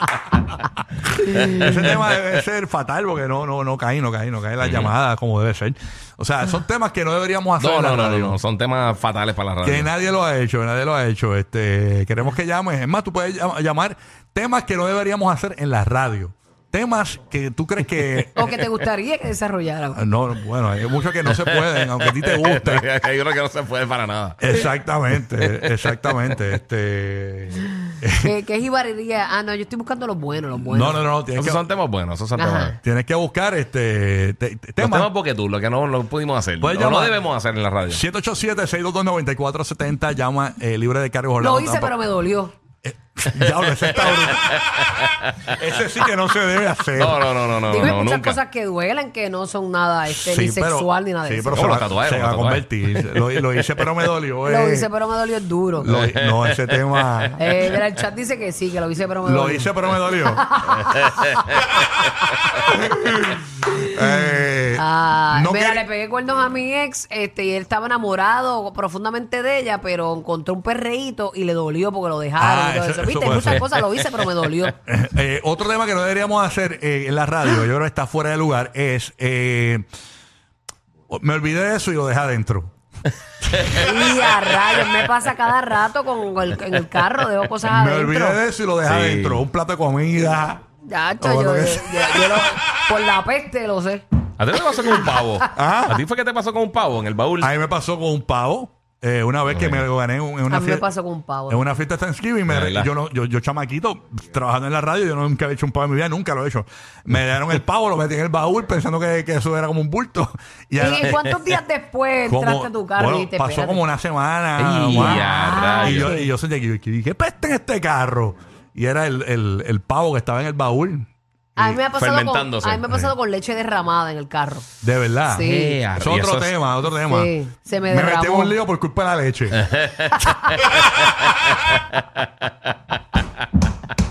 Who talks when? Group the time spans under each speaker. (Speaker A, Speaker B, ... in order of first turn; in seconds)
Speaker A: 1.3-1.9, 4.6-4.9, 7.6-9.9, 21.2-24.4, 31.4-32.8, 34.8-38.0, 44.4-45.2, 46.9-48.4, 51.5-53.7, 55.9-57.2, 61.1-61.5, 88.8-89.5, 94.4-97.5, 99.5-99.8, 102.5-102.9, 114.6-116.2, 121.9-123.1, 125.4-126.6, 129.6-132.2
Speaker B: 1.4-8.4, 9.6-18.4, 19.9-22.9, 24.4-28.3, 30.7-31.6, 32.8-35.1, 36.6-37.2, 37.9-41.9, 42.8-44.7, 45.6-47.2, 50.1-54.9, 55.8-57.4, 59.2-60.4, 62.9-65.8, 72.4-73.7, 74.8-79.8, 81.1-82.7, 87.7-90.6, 91.2-92.4, 95.5-96.0, 97.4-100.8, 101.5-111.2, 112.2-121.8, 124.8-127.3, 127.9-129.6
Speaker C: 18.3-20.0, 28.2-31.0, 32.3-32.8, 41.4-42.5, 47.7-51.7, 54.4-55.9, 57.4-61.8, 64.7-74.8, 83.7-88.4, 90.8-94.0, 100.5-101.6, 110.8-113.8, 114.9-116.3, 121.6-124.7, 125.3-125.8, 127.0-128.6